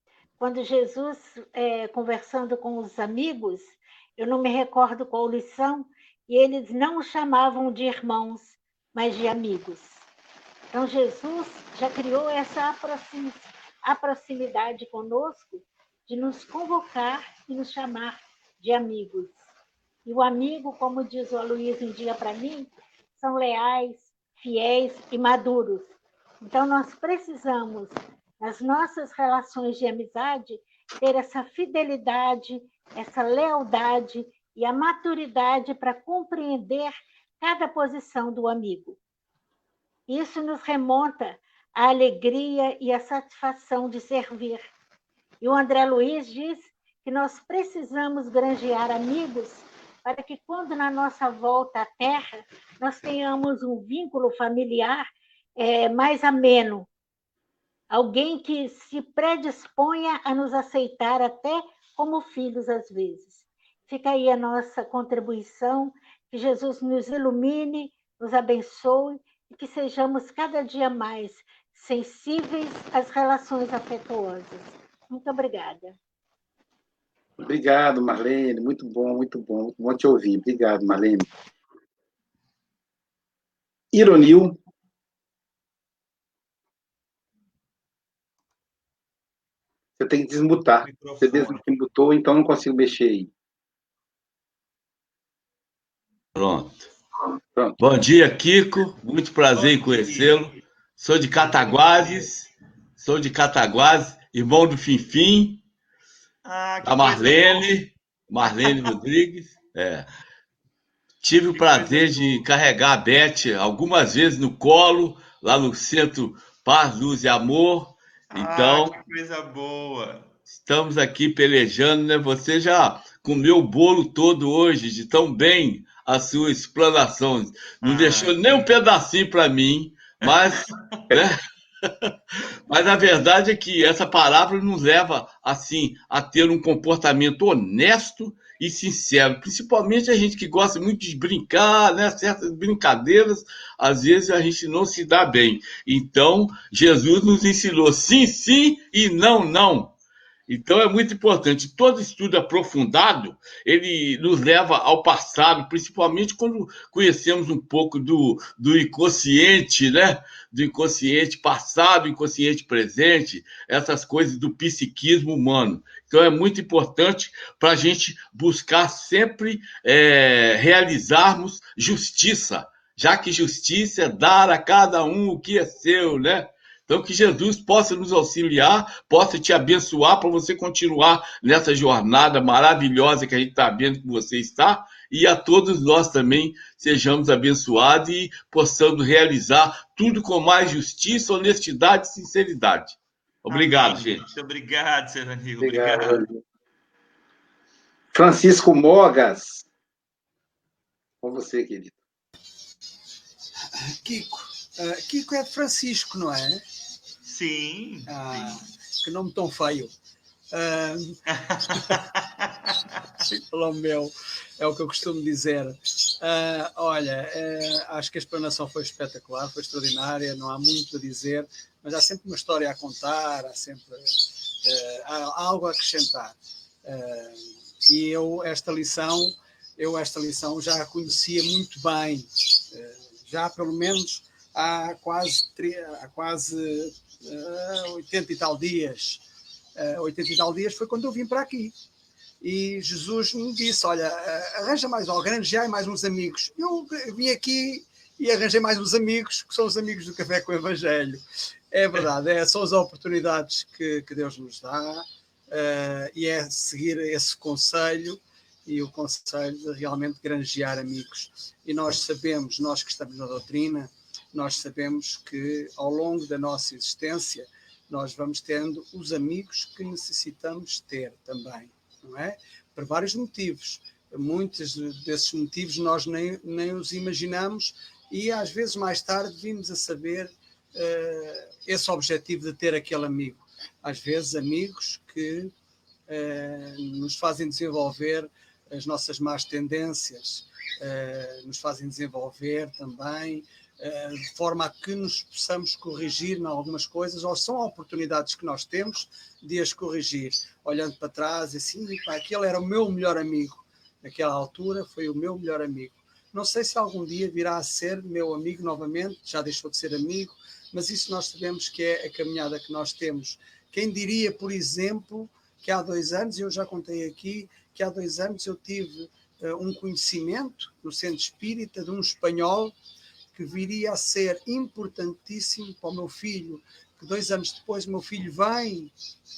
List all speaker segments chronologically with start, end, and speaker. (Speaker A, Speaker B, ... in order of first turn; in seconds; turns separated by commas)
Speaker A: 0.4-9.9, Speaker A: 10.7-19.4, Speaker A: 20.1-39.0, Speaker A: 40.1-44.6, Speaker A: 45.4-55.1, Speaker A: 55.6-56.9, Speaker A: 57.9-76.0, Speaker B: 77.4-81.3, Speaker B: 83.9-84.6, Speaker B: 90.0-93.3, Speaker C: 90.8-91.6, Speaker D: 96.3-96.9, Speaker D: 97.8-105.6, Speaker C: 99.5-100.6, Speaker C: 101.3-102.3, Speaker C: 106.4-107.7, Speaker D: 106.8-110.1, Speaker C: 108.4-108.9, Speaker D: 111.2-119.0, Speaker C: 111.5-112.5, Speaker C: 118.3-120.3, Speaker D: 120.5-131.4, Speaker C: 127.8-128.8, Speaker C: 130.2-131.2, Speaker D: 132.7-149.9, Speaker D: 150.5-194.2, Speaker C: 193.5-196.2, Speaker B: 195.6-196.4, Speaker B: 198.1-199.7, Speaker B: 201.2-202.0, Speaker E: 203.7-206.6, Speaker C: 207.2-208.7, Speaker E: 208.1-209.9, Speaker E: 210.5-212.0, Speaker C: 211.3-212.2, Speaker E: 213.2-239.2, Speaker E: 239.8-241.8, Speaker E: 242.4-285.5, Speaker E: 286.1-322.8, Speaker E: 323.3-328.9